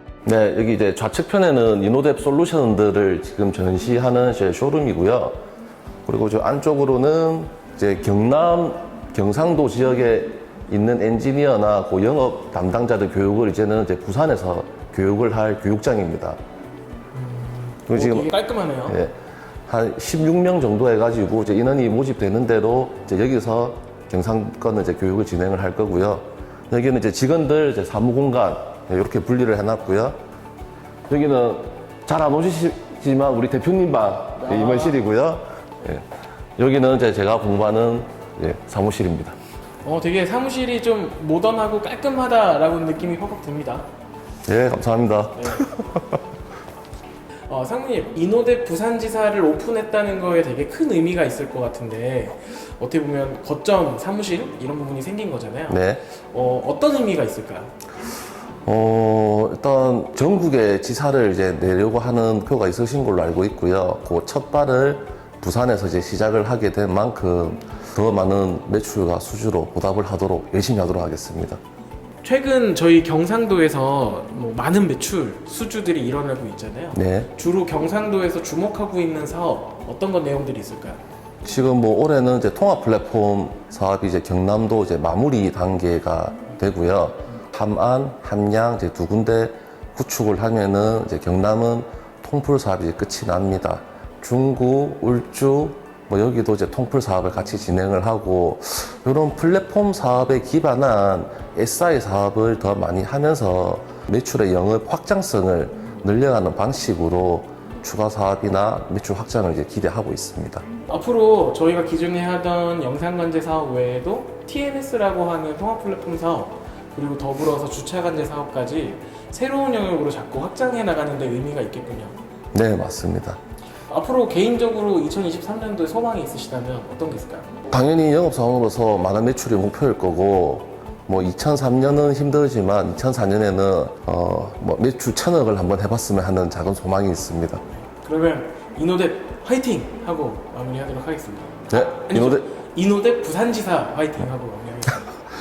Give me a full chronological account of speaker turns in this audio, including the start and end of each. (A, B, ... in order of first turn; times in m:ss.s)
0:00.2-0:05.3 A
0:06.0-0:16.4 A
0:17.1-0:19.0 B
0:17.9-0:18.3 A
0:18.9-0:19.1 A
0:19.7-0:30.1 A
0:31.1-0:39.4 A
0:39.8-0:43.9 B
0:44.4-0:46.2 A
0:45.4-0:45.7 B
0:47.5-0:57.7 B
0:55.7-0:56.0 A
0:58.6-1:11.6 A
1:12.2-1:21.0 B
1:16.9-1:17.3 A
1:21.4-1:50.6 A
1:50.9-2:02.2 B
2:02.5-2:03.4 A
2:03.9-2:07.5 B
2:07.7-2:17.6 A
2:17.8-2:25.1 B
2:21.7-2:22.5 A